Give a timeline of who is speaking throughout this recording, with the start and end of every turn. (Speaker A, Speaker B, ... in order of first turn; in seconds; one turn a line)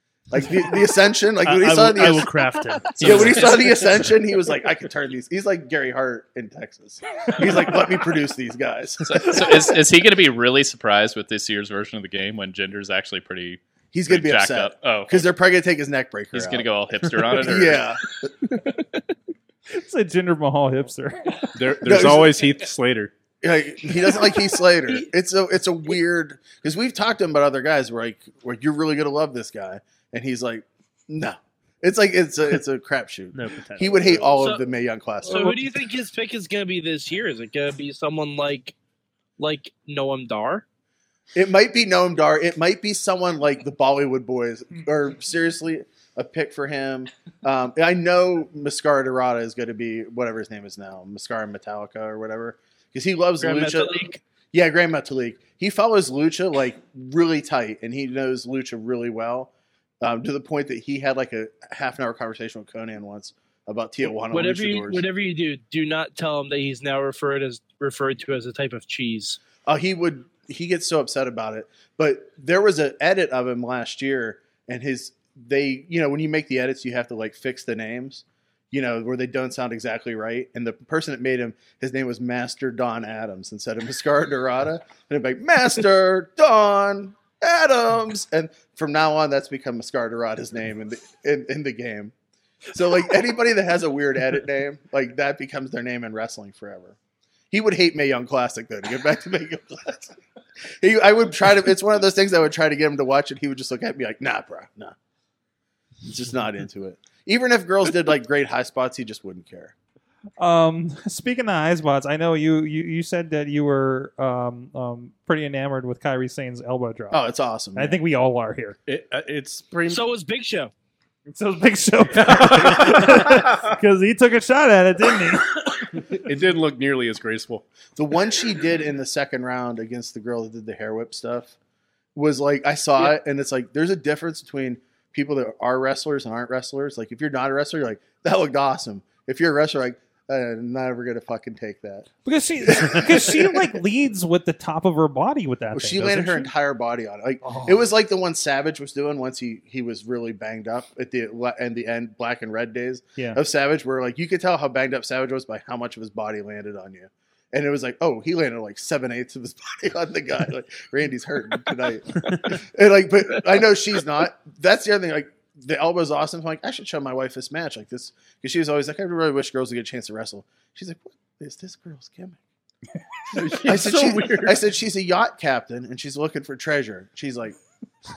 Speaker A: 0.3-2.3
Speaker B: 1.4-3.7
Speaker C: 3.0-4.0
Speaker A: 3.0-9.8
Speaker C: 9.0-15.3
Speaker A: 13.9-16.7
Speaker C: 16.3-17.9
Speaker A: 17.3-18.3
Speaker D: 19.7-21.5
Speaker E: 21.6-23.1
Speaker A: 21.8-22.4
Speaker A: 23.4-35.6
Speaker B: 33.3-34.5
Speaker F: 35.2-38.8
Speaker F: 39.4-40.6
Speaker A: 41.4-54.0
Speaker F: 53.4-54.2
Speaker A: 54.5-65.1
Speaker F: 64.3-69.4
Speaker A: 69.7-92.1
Speaker A: 92.7-97.0
Speaker A: 97.5-100.2
Speaker A: 100.8-105.0
Speaker A: 106.0-109.7
Speaker D: 110.4-117.2
Speaker A: 117.1-118.0
Speaker D: 117.8-118.8
Speaker E: 118.9-120.0
Speaker F: 119.9-120.7
Speaker D: 121.3-125.7
Speaker E: 122.1-123.8
Speaker E: 125.8-127.7
Speaker A: 128.0-131.6
Speaker A: 132.2-142.1
Speaker D: 142.2-146.5
Speaker A: 142.6-143.7
Speaker A: 145.7-172.4
Speaker D: 147.4-147.8
Speaker E: 173.3-174.6
Speaker A: 173.6-177.6